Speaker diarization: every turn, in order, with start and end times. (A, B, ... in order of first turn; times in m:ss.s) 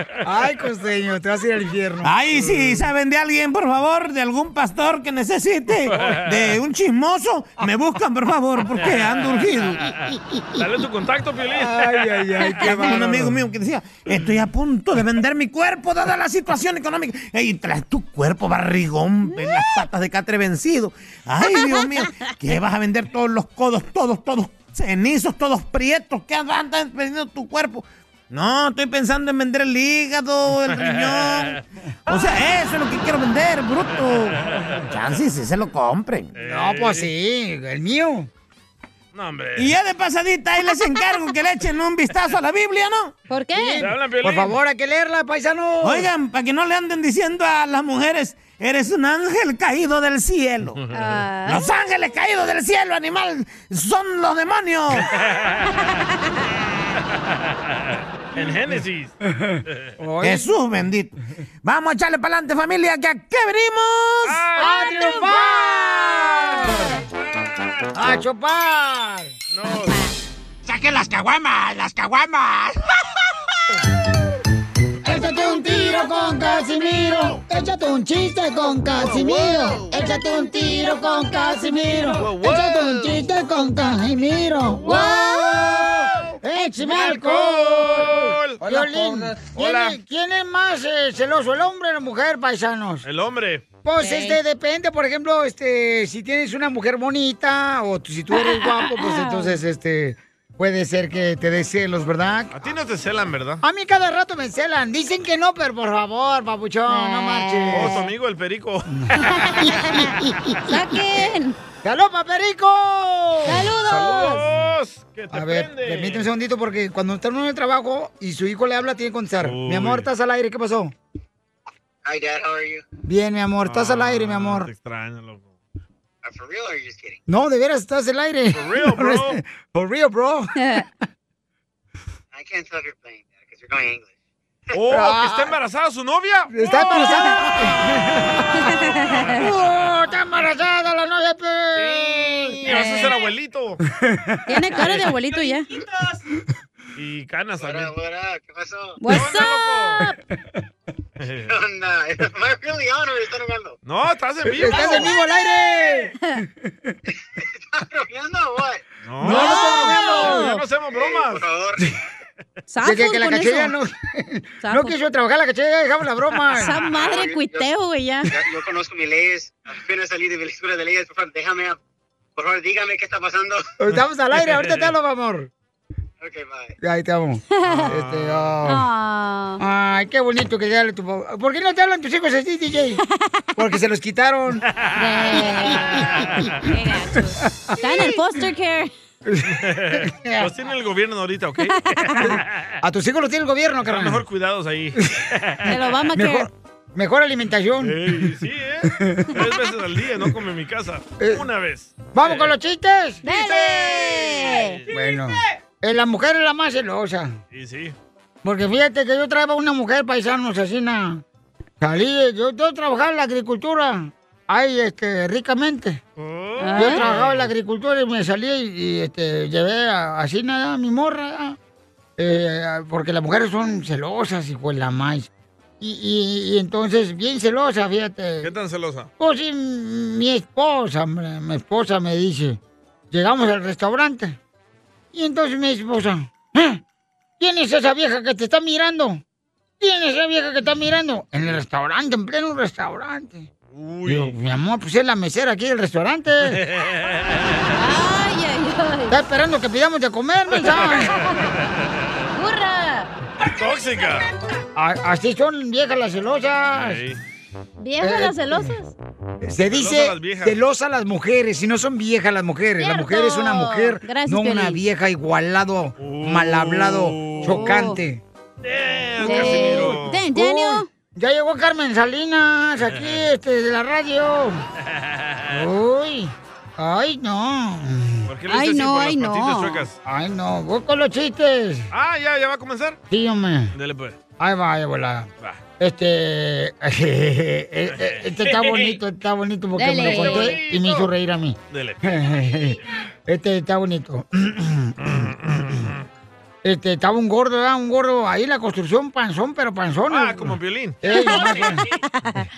0:00.2-0:02.1 A
0:02.0-0:09.8 B
0:02.4-0:02.8 C
0:05.9-0:06.4 C
0:08.8-0:09.3 C
0:10.6-0:12.5 C
0:11.6-0:13.4 A
0:12.6-0:36.3 B
0:21.6-0:22.3 D
0:36.3-0:37.1 C
0:36.4-0:38.3 A
0:39.1-0:39.7 C
0:39.6-0:43.1 B
0:43.3-0:43.8 D
0:43.5-0:46.1 A
0:43.8-0:44.6 C
0:45.8-0:50.8 B
0:50.9-0:51.7 D
0:51.4-0:55.0 B
0:55.3-0:55.6 C
0:55.9-0:56.2 D
0:58.3-0:59.1 C
0:59.3-1:00.5 A
1:00.2-1:04.4 B
1:04.2-1:04.7 C
1:04.6-1:06.0 D
1:04.6-1:07.0 A
1:07.9-1:09.3 A
1:09.5-1:10.0 C
1:10.6-1:12.7 B
1:15.0-1:33.0 A
1:15.5-1:15.9 D
1:19.0-1:19.8 C
1:19.9-1:21.7 D
1:22.2-1:23.2 C
1:24.8-1:25.6 D
1:26.9-1:28.6 C
1:29.5-1:30.0 C
1:33.0-1:33.6 C
1:33.8-1:42.6 A
1:34.0-1:34.4 D
1:38.3-1:39.6 D
1:42.5-1:43.6 C
1:43.6-1:48.0 A
1:46.9-1:48.1 D
1:47.7-1:49.8 C
1:49.3-1:49.9 D
1:49.6-1:50.4 A
1:50.7-1:51.6 D
1:51.8-1:54.3 A
1:53.4-1:54.4 D
1:53.9-1:56.3 C
1:55.3-2:00.9 A
1:59.4-2:00.1 C
2:02.0-2:02.8 E
2:03.0-2:04.7 A
2:03.6-2:05.5 C
2:06.2-2:07.2 E
2:07.3-2:10.8 A
2:08.5-2:09.4 C
2:10.6-2:10.8 D
2:12.3-2:14.1 E
2:14.7-2:16.6 C
2:14.9-2:15.5 A
2:16.5-2:22.6 A
2:16.8-2:17.6 D
2:18.7-2:19.4 D
2:21.8-2:23.8 C
2:22.7-2:23.2 D
2:24.0-2:24.4 A
2:24.5-2:25.7 D
2:27.0-2:27.9 C
2:27.6-2:29.0 E
2:29.0-2:30.1 D
2:29.1-2:30.0 C
2:31.2-2:31.5 C
2:31.5-2:33.8 E
2:33.8-2:35.1 C
2:34.6-2:36.9 A
2:34.7-2:35.2 D
2:37.4-2:38.8 E
2:39.0-2:41.4 C
2:39.2-2:40.6 D
2:39.2-2:40.4 A
2:40.9-2:41.8 E
2:42.7-2:43.7 D
2:42.8-2:46.8 A
2:44.6-2:45.0 D
2:46.5-2:48.4 D
2:46.9-2:47.7 E
2:48.3-2:51.8 E
2:52.4-2:53.6 E
2:53.8-2:55.5 A
2:54.4-2:54.9 C
2:56.2-2:56.8 E
2:56.8-2:58.8 A
2:57.6-2:57.9 D
2:57.7-2:58.4 C
2:58.6-2:59.6 D
2:59.6-3:03.0 A
3:03.6-3:04.6 A
3:04.8-3:05.0 C
3:05.0-3:08.9 D
3:05.6-3:06.0 A
3:09.3-3:10.5 A
3:09.5-3:12.7 C
3:11.7-3:12.3 D
3:12.2-3:14.2 A
3:13.8-3:15.7 C
3:15.7-3:16.5 D
3:16.1-3:18.2 A
3:17.8-3:22.5 C
3:18.9-3:19.3 A
3:21.2-3:21.4 A
3:22.1-3:23.3 A
3:23.2-3:24.8 D
3:23.9-3:24.9 C
3:24.9-3:27.4 A
3:27.5-3:27.9 C
3:28.4-3:31.2 A
3:31.8-3:36.0 A
3:36.2-3:37.5 C
3:36.6-3:37.1 D
3:36.8-3:41.6 A
3:42.2-3:48.5 A
3:48.4-3:49.1 C
3:49.2-3:52.6 A
3:53.1-3:54.4 A
3:55.1-3:56.8 A
3:57.4-3:59.2 A
3:59.8-4:03.5 A
4:03.7-4:04.3 C
4:04.0-4:06.6 A
4:06.5-4:07.7 C
4:07.8-4:09.2 D
4:09.1-4:11.1 A
4:10.8-4:11.3 D
4:12.3-4:13.1 D
4:13.4-4:14.3 C
4:14.7-4:17.0 A
4:16.7-4:17.2 C
4:17.8-4:18.9 D
4:18.0-4:18.7 A
4:19.4-4:28.2 A
4:19.7-4:20.6 C
4:22.8-4:24.8 D
4:26.0-4:27.8 C
4:27.4-4:28.0 D
4:28.6-4:30.2 C
4:29.2-4:30.9 D
4:29.2-4:34.6 A
4:32.9-4:33.2 C
4:34.9-4:35.6 C
4:35.5-4:38.3 A
4:38.3-4:40.0 C
4:38.5-4:39.8 D
4:40.0-4:41.9 A
4:41.9-4:43.0 C
4:43.1-4:43.7 A
4:43.7-4:44.2 C
4:44.4-4:55.3 A
4:47.9-4:49.0 C
4:49.8-4:50.6 D
4:50.0-4:51.1 C
4:51.7-4:52.0 C
4:55.0-4:56.0 C
4:56.6-5:01.8 A
5:00.1-5:01.0 C
5:01.0-5:02.4 D